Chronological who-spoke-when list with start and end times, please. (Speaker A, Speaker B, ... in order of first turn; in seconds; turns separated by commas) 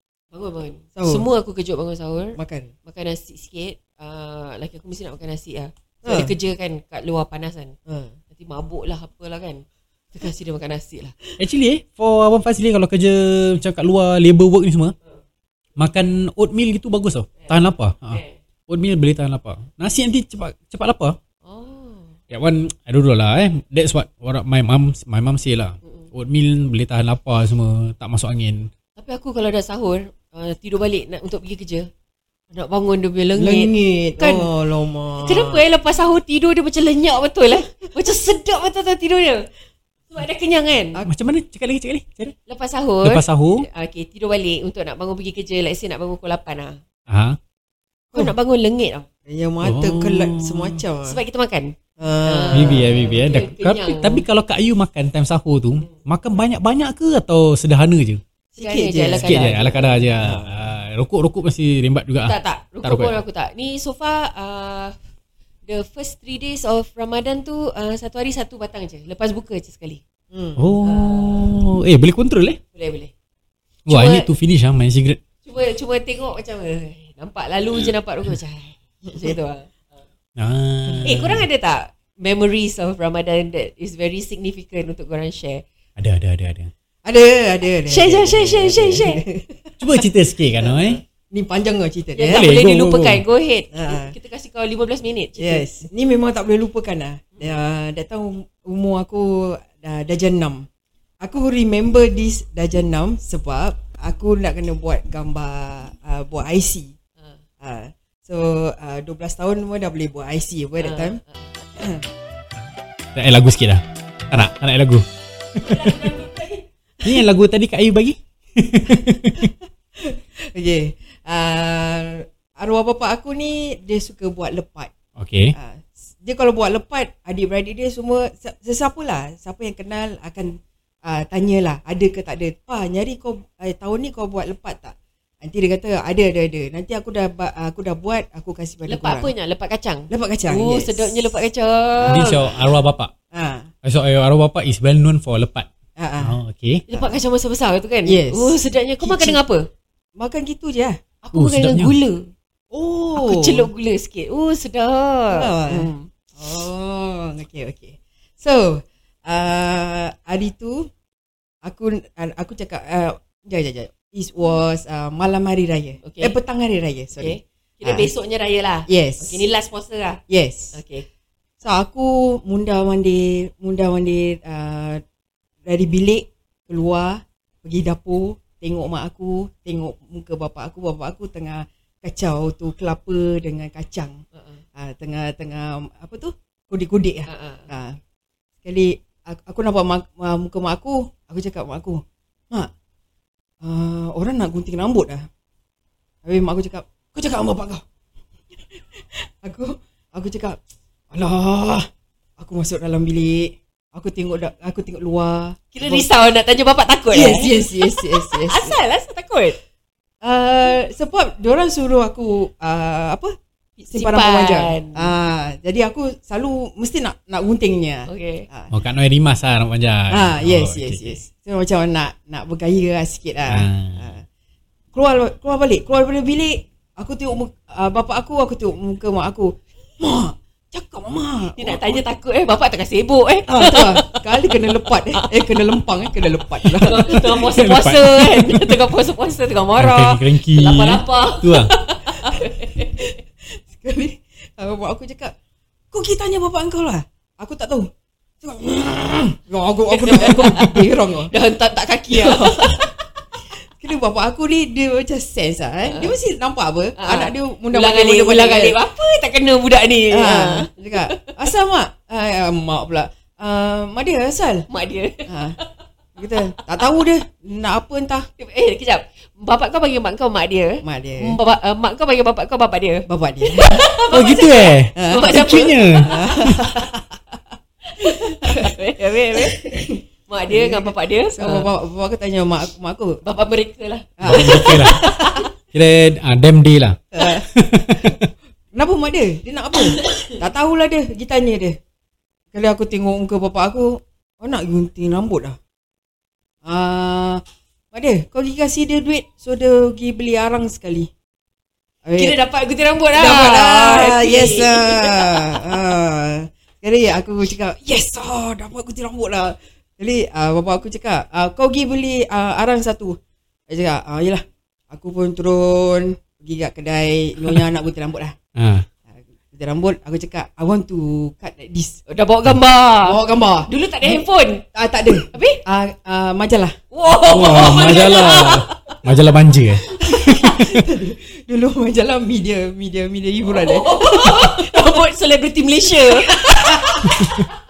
Speaker A: 0.3-7.7, Speaker B: 0.9-1.3, Speaker B: 2.4-2.7, Speaker B: 6.0-6.3, Speaker B: 7.9-8.1, Speaker A: 8.3-11.2, Speaker C: 11.4-14.9, Speaker C: 15.8-21.1, Speaker A: 17.4-18.4, Speaker A: 21.4-22.1, Speaker C: 22.3-28.7, Speaker A: 29.0-31.9, Speaker A: 32.5-34.5, Speaker B: 33.4-35.6, Speaker A: 35.1-39.4, Speaker A: 40.1-41.0, Speaker C: 41.1-42.3, Speaker A: 42.5-46.8, Speaker C: 43.0-43.6, Speaker C: 47.1-47.4, Speaker A: 48.1-49.1, Speaker B: 49.2-51.1, Speaker C: 49.6-50.8, Speaker A: 51.0-54.2, Speaker B: 52.0-53.1, Speaker C: 52.5-58.2, Speaker B: 58.5-60.5, Speaker A: 58.5-60.0, Speaker C: 59.2-63.2, Speaker A: 62.2-64.9, Speaker A: 65.7-70.0, Speaker B: 70.3-70.7, Speaker C: 70.5-72.6, Speaker A: 70.8-71.5, Speaker A: 72.7-73.1, Speaker C: 73.9-75.2, Speaker A: 73.9-74.3, Speaker A: 75.4-79.8, Speaker C: 80.4-81.4, Speaker A: 81.0-85.6, Speaker C: 86.0-86.7, Speaker B: 87.0-90.0, Speaker A: 87.8-89.2, Speaker C: 89.8-91.0, Speaker B: 90.6-92.4, Speaker A: 92.2-95.6, Speaker C: 92.3-93.2, Speaker B: 93.7-94.1, Speaker B: 95.4-100.6, Speaker B: 101.2-106.9, Speaker B: 107.6-111.2, Speaker A: 110.8-111.4, Speaker B: 111.8-112.0, Speaker C: 113.2-115.0, Speaker A: 115.6-116.6, Speaker C: 115.6-116.0, Speaker C: 117.0-119.5, Speaker B: 118.9-124.9, Speaker C: 125.2-125.5, Speaker B: 125.5-139.3, Speaker A: 138.9-142.4, Speaker B: 140.1-141.3, Speaker B: 142.0-142.6, Speaker C: 142.1-143.1, Speaker B: 143.3-143.7, Speaker C: 143.8-145.7, Speaker B: 146.0-146.3, Speaker C: 146.2-146.8, Speaker A: 146.9-149.7, Speaker B: 148.1-149.4, Speaker B: 150.2-151.0, Speaker A: 151.2-152.3, Speaker C: 151.3-151.9, Speaker B: 152.7-153.7, Speaker A: 153.1-155.9, Speaker B: 155.3-160.9, Speaker B: 161.6-168.1, Speaker A: 166.0-166.3, Speaker A: 167.2-170.2, Speaker B: 168.9-169.4, Speaker B: 170.3-170.8, Speaker A: 170.7-171.0, Speaker B: 171.6-175.0, Speaker B: 175.7-184.2, Speaker A: 184.3-184.6, Speaker B: 184.8-188.0, Speaker A: 187.3-187.7, Speaker B: 188.6-192.7, Speaker B: 193.6-195.3, Speaker B: 196.2-197.8, Speaker B: 198.6-200.6, Speaker B: 201.1-201.9, Speaker B: 202.4-206.1, Speaker A: 205.7-209.6, Speaker B: 207.1-208.8, Speaker B: 210.2-213.3, Speaker A: 213.8-215.1, Speaker B: 213.9-218.7, Speaker A: 218.1-218.5, Speaker C: 218.7-221.2, Speaker B: 220.1-224.2, Speaker C: 223.5-224.1, Speaker B: 224.9-232.0, Speaker A: 231.6-235.3, Speaker B: 233.5-237.2, Speaker A: 236.8-243.1, Speaker C: 236.8-238.9, Speaker C: 239.8-241.7, Speaker B: 242.3-243.1, Speaker B: 243.7-245.3, Speaker B: 245.9-247.9, Speaker B: 248.4-251.3, Speaker A: 249.9-250.7, Speaker C: 250.4-250.7, Speaker A: 251.3-252.9, Speaker B: 252.1-252.9, Speaker B: 253.7-258.8, Speaker A: 255.8-256.1, Speaker A: 256.9-261.3, Speaker B: 260.1-264.6, Speaker A: 264.7-265.3, Speaker B: 265.3-265.6, Speaker B: 266.1-268.3, Speaker A: 268.4-277.0, Speaker B: 270.8-271.4, Speaker B: 273.1-273.9, Speaker C: 274.1-276.1, Speaker B: 274.9-277.1, Speaker A: 277.9-279.6, Speaker B: 278.4-278.7, Speaker B: 279.3-283.2, Speaker A: 280.3-281.7, Speaker A: 283.2-285.5, Speaker B: 284.2-285.4, Speaker C: 284.2-285.0, Speaker C: 285.7-288.3, Speaker B: 287.1-288.1, Speaker B: 288.7-291.8, Speaker A: 290.0-290.4, Speaker B: 292.5-295.6, Speaker B: 296.6-301.1, Speaker B: 302.0-302.4, Speaker A: 302.1-305.6, Speaker B: 303.1-318.3, Speaker C: 318.6-318.9, Speaker B: 319.5-322.0, Speaker A: 322.1-324.6, Speaker B: 323.0-324.2, Speaker B: 324.7-326.8, Speaker A: 325.3-325.6, Speaker A: 326.9-329.0, Speaker C: 327.3-330.9, Speaker B: 327.4-328.0, Speaker B: 330.0-334.8, Speaker A: 333.5-337.4, Speaker B: 336.0-337.2